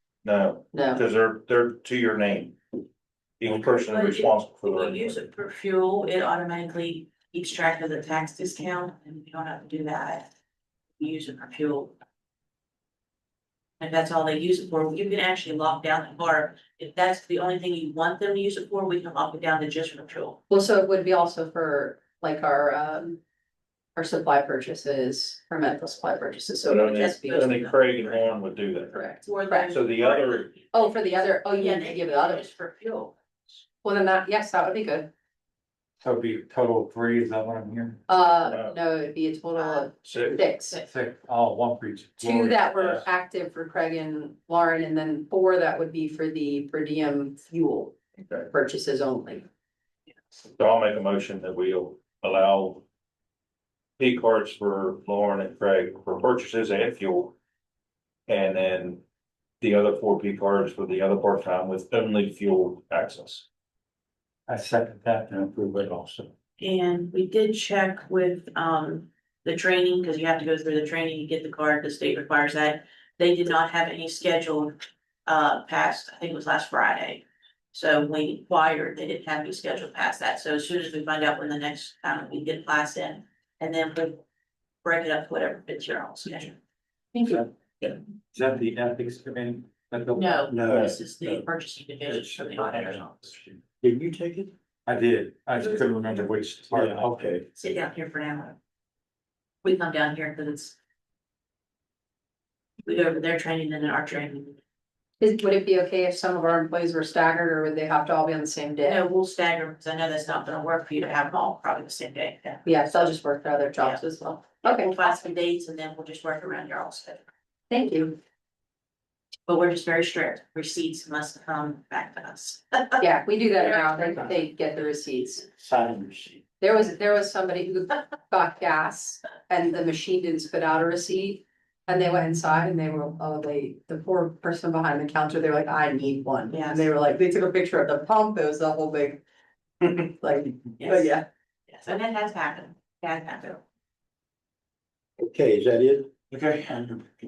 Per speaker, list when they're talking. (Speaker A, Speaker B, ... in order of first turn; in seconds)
Speaker A: 0.2-2.6, 3.4-5.2, 26.7-29.0, 29.7-30.5, 38.4-38.8, 40.0-40.5, 50.6-52.9, 54.0-57.4, 58.3-59.0, 59.6-63.5, 146.3-147.0
Speaker B: 0.7-1.0, 20.5-23.2, 24.0-27.6, 28.9-29.7, 30.7-32.5, 33.8-35.1, 38.1-40.8, 42.2-48.0, 48.5-49.5, 105.2-109.0, 112.7-115.2, 117.7-118.2, 123.0-125.5, 126.6-139.2, 140.0-141.3
Speaker C: 3.9-10.3, 11.0-11.9, 13.8-20.4, 26.7-28.2, 29.2-33.1, 66.6-84.2, 84.8-86.6, 87.2-87.4, 90.1-93.3, 97.5-98.6, 99.6-100.8, 102.8-104.6, 108.8-113.1, 113.8-117.2, 119.5-123.0, 123.6-124.3, 136.5-136.9, 140.8-141.1, 141.7-143.6
Speaker D: 36.0-38.0, 40.8-43.0, 64.5-66.3, 88.3-90.5, 94.9-97.4, 125.6-126.4
Speaker E: 90.5-91.0, 93.8-94.5, 96.7-97.4, 145.2-146.1